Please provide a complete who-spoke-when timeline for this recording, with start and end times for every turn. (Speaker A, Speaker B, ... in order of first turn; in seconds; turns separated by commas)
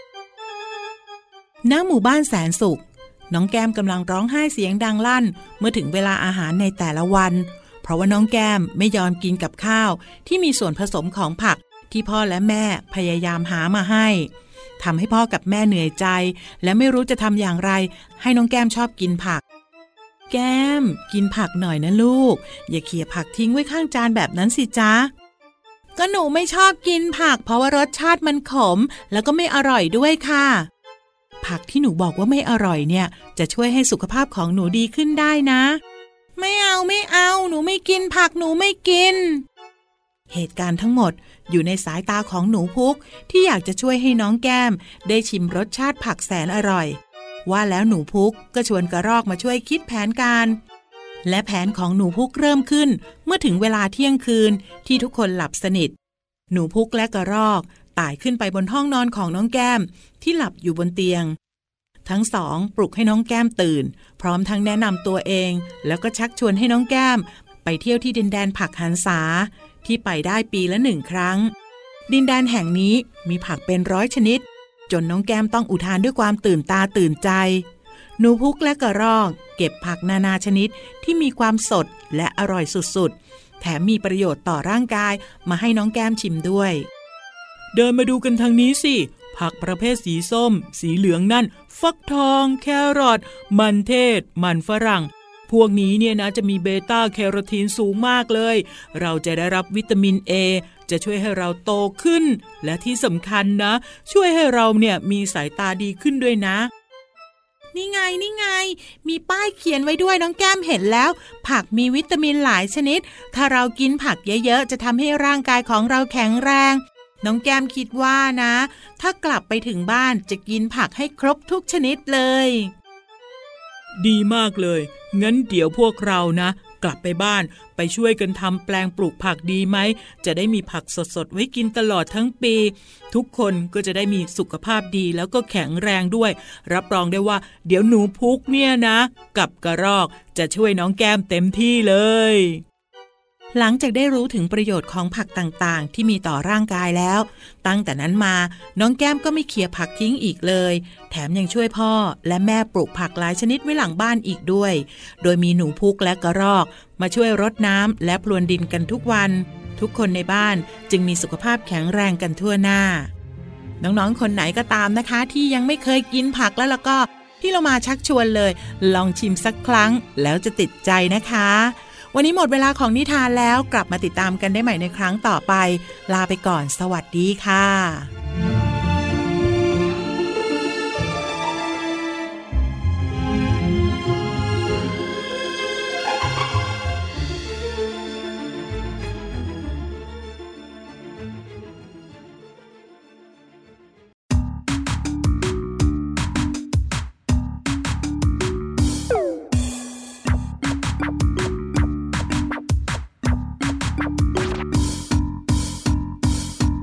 Speaker A: 1.6-19.4, Speaker A: 20.3-25.1, Speaker A: 25.9-30.7, Speaker A: 31.4-35.8, Speaker A: 36.4-39.4, Speaker A: 40.3-50.6, Speaker A: 51.2-55.9, Speaker A: 56.5-61.4, Speaker A: 62.0-71.5, Speaker A: 72.1-77.7, Speaker A: 78.2-86.9, Speaker A: 87.7-106.7, Speaker A: 107.7-122.7, Speaker A: 124.0-142.6, Speaker A: 143.5-163.1, Speaker A: 163.8-178.1